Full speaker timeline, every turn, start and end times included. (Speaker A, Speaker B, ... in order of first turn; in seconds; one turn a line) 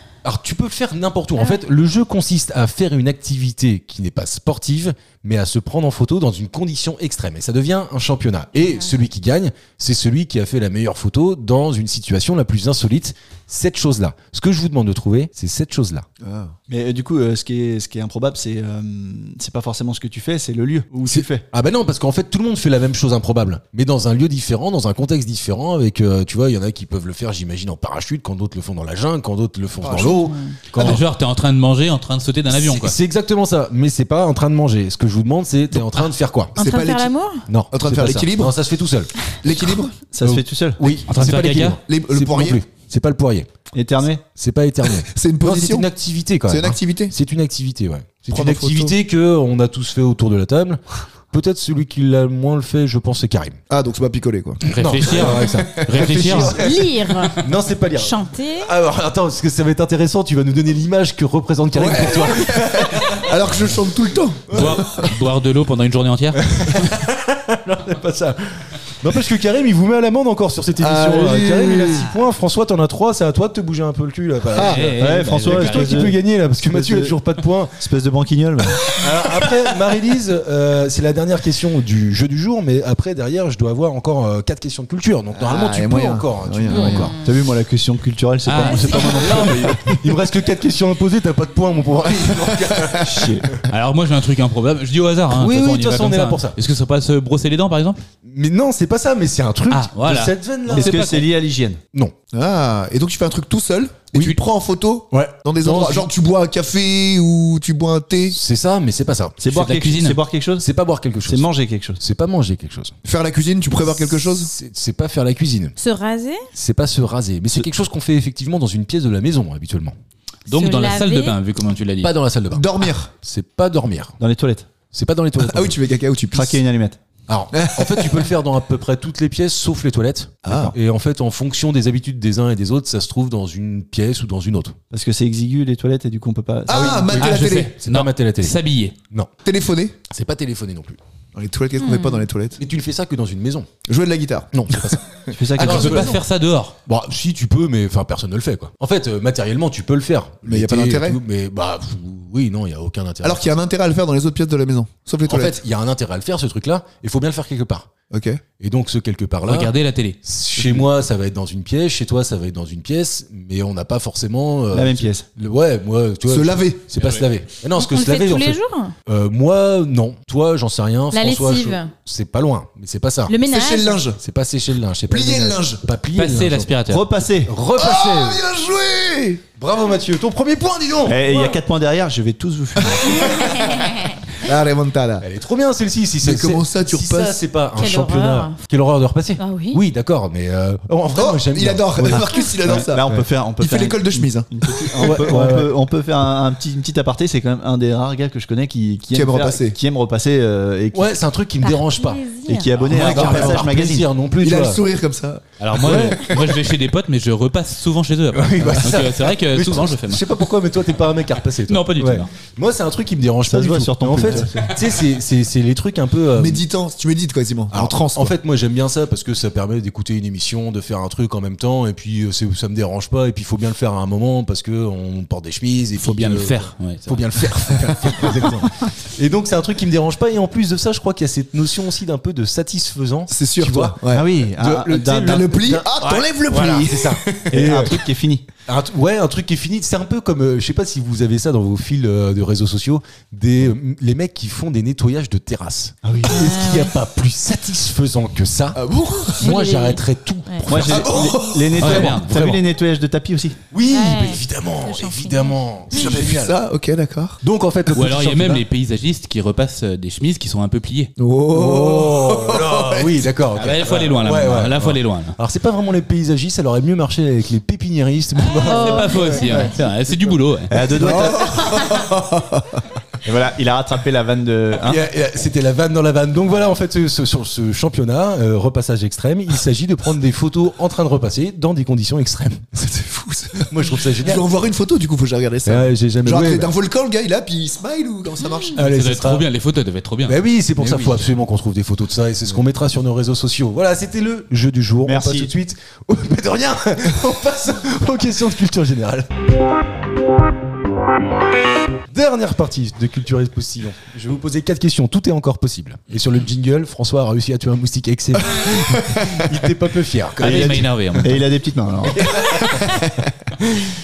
Speaker A: 0.2-16.1
Speaker B: 16.2-16.5
Speaker C: 16.7-21.4
Speaker A: 21.1-31.0
Speaker B: 29.8-30.3
Speaker D: 30.1-30.5
Speaker E: 30.7-33.0
Speaker A: 32.5-36.6
Speaker B: 36.5-37.1
Speaker D: 36.5-37.5
Speaker A: 37.5-43.5
Speaker B: 37.7-38.5
Speaker B: 39.3-40.0
Speaker C: 40.1-40.8
Speaker E: 41.1-41.8
Speaker B: 41.8-42.6
Speaker C: 43.7-44.2
Speaker A: 44.3-53.6
Speaker B: 45.1-45.9
Speaker B: 46.5-47.1
Speaker B: 48.3-49.0
Speaker B: 53.7-56.5
Speaker A: 54.6-63.6
Speaker E: 54.7-56.6
Speaker D: 56.4-57.4
Speaker D: 57.9-58.7
Speaker B: 61.7-65.1
Speaker A: 64.5-64.8
Speaker E: 64.5-66.4
Speaker A: 66.3-77.8
Speaker B: 70.8-72.1
Speaker B: 74.5-74.8
Speaker E: 74.5-76.1
Speaker C: 74.8-77.2
Speaker C: 77.8-79.0
Speaker A: 78.8-87.1
Speaker B: 85.3-87.1
Speaker D: 86.7-87.2
Speaker C: 86.8-90.0
Speaker E: 88.5-89.7
Speaker D: 88.6-89.0
Speaker A: 89.3-93.6
Speaker B: 92.0-93.3
Speaker C: 93.0-93.5
Speaker E: 93.7-98.0
Speaker A: 95.3-96.6
Speaker A: 98.2-101.0
Speaker E: 99.7-101.2
Speaker C: 100.7-101.8
Speaker B: 102.3-108.4
Speaker A: 105.1-106.1
Speaker A: 108.3-109.4
Speaker C: 109.4-110.7
Speaker E: 109.5-110.2
Speaker A: 110.6-111.5
Speaker C: 111.2-112.0
Speaker A: 112.0-112.9
Speaker B: 113.0-114.5
Speaker A: 113.8-115.7
Speaker D: 115.8-116.5
Speaker A: 116.5-119.9
Speaker E: 120.5-122.1
Speaker D: 120.5-121.4
Speaker A: 122.0-124.2
Speaker B: 122.5-123.1
Speaker C: 124.2-124.7
Speaker A: 124.9-125.8
Speaker B: 125.4-126.6
Speaker C: 126.3-127.0
Speaker A: 127.3-134.8
Speaker B: 127.5-128.2
Speaker B: 130.4-130.7
Speaker C: 130.5-130.7
Speaker C: 134.9-137.1
Speaker B: 136.7-137.7
Speaker A: 136.7-138.6
Speaker E: 137.1-138.9
Speaker B: 139.4-140.0
Speaker A: 140.1-141.0
Speaker B: 141.3-142.6
Speaker D: 141.8-142.2
Speaker A: 142.6-143.7
Speaker B: 143.8-144.9
Speaker A: 144.5-145.0
Speaker C: 145.3-146.2
Speaker B: 145.6-146.2
Speaker A: 145.6-146.2
Speaker E: 145.6-146.8
Speaker A: 146.8-153.4
Speaker B: 150.4-151.2
Speaker B: 153.2-155.6
Speaker A: 155.2-157.9
Speaker B: 158.1-158.4
Speaker A: 158.6-159.7
Speaker E: 159.4-160.2
Speaker A: 160.2-173.4
Speaker C: 164.7-165.2
Speaker B: 166.3-166.8
Speaker E: 166.9-167.2
Speaker D: 167.7-168.9
Speaker D: 171.1-171.9
Speaker D: 173.3-174.0
Speaker B: 173.4-174.2
Speaker A: 174.2-176.7
Speaker B: 175.1-175.8
Speaker E: 176.2-177.0
Speaker C: 176.9-177.5
Speaker A: 177.4-178.4
Speaker B: 177.7-179.4
Speaker A: 179.6-181.6
Speaker C: 181.1-183.4
Speaker D: 183.4-183.9
Speaker B: 184.4-185.2
Speaker A: 185.2-193.1
Speaker B: 186.2-187.4
Speaker D: 187.8-188.6
Speaker D: 189.4-189.8
Speaker B: 191.1-195.4
Speaker C: 192.0-201.1
Speaker A: 195.0-195.7
Speaker B: 199.1-199.8
Speaker A: 200.9-204.8
Speaker D: 201.6-202.7
Speaker C: 202.5-204.1
Speaker E: 202.8-203.4
Speaker B: 203.1-203.6
Speaker B: 204.4-206.5
Speaker E: 205.6-210.3
Speaker A: 205.8-206.2
Speaker A: 208.3-216.6
Speaker E: 211.7-212.3
Speaker C: 213.4-214.7
Speaker B: 216.3-218.3
Speaker A: 217.7-237.9
Speaker E: 226.0-227.2
Speaker B: 227.8-228.1
Speaker B: 233.3-234.2
Speaker C: 234.1-235.9
Speaker B: 235.3-237.8
Speaker C: 237.5-238.4
Speaker A: 238.7-248.8
Speaker C: 246.0-246.4
Speaker D: 246.3-246.9
Speaker B: 248.7-249.5
Speaker A: 249.3-252.6
Speaker D: 249.4-250.7
Speaker C: 250.7-253.6
Speaker B: 250.7-252.1
Speaker E: 251.8-252.6
Speaker A: 253.7-256.6
Speaker D: 253.9-256.1
Speaker B: 255.9-257.4
Speaker A: 257.4-258.6
Speaker E: 257.9-261.1
Speaker B: 261.2-263.3
Speaker A: 261.5-269.7
Speaker E: 263.6-265.4
Speaker D: 268.5-269.7
Speaker E: 268.6-271.2
Speaker C: 270.7-271.7
Speaker B: 270.9-272.8
Speaker C: 273.2-275.0
Speaker A: 274.8-282.8
Speaker B: 282.8-288.9
Speaker A: 283.6-284.5
Speaker A: 285.6-286.7
Speaker A: 288.7-289.4
Speaker E: 288.8-290.4
Speaker A: 290.2-299.3
Speaker B: 290.8-291.2
Speaker C: 295.0-295.5
Speaker A: 302.1-311.3
Speaker B: 308.4-309.6
Speaker C: 310.4-312.4
Speaker E: 310.4-311.4
Speaker A: 312.0-313.1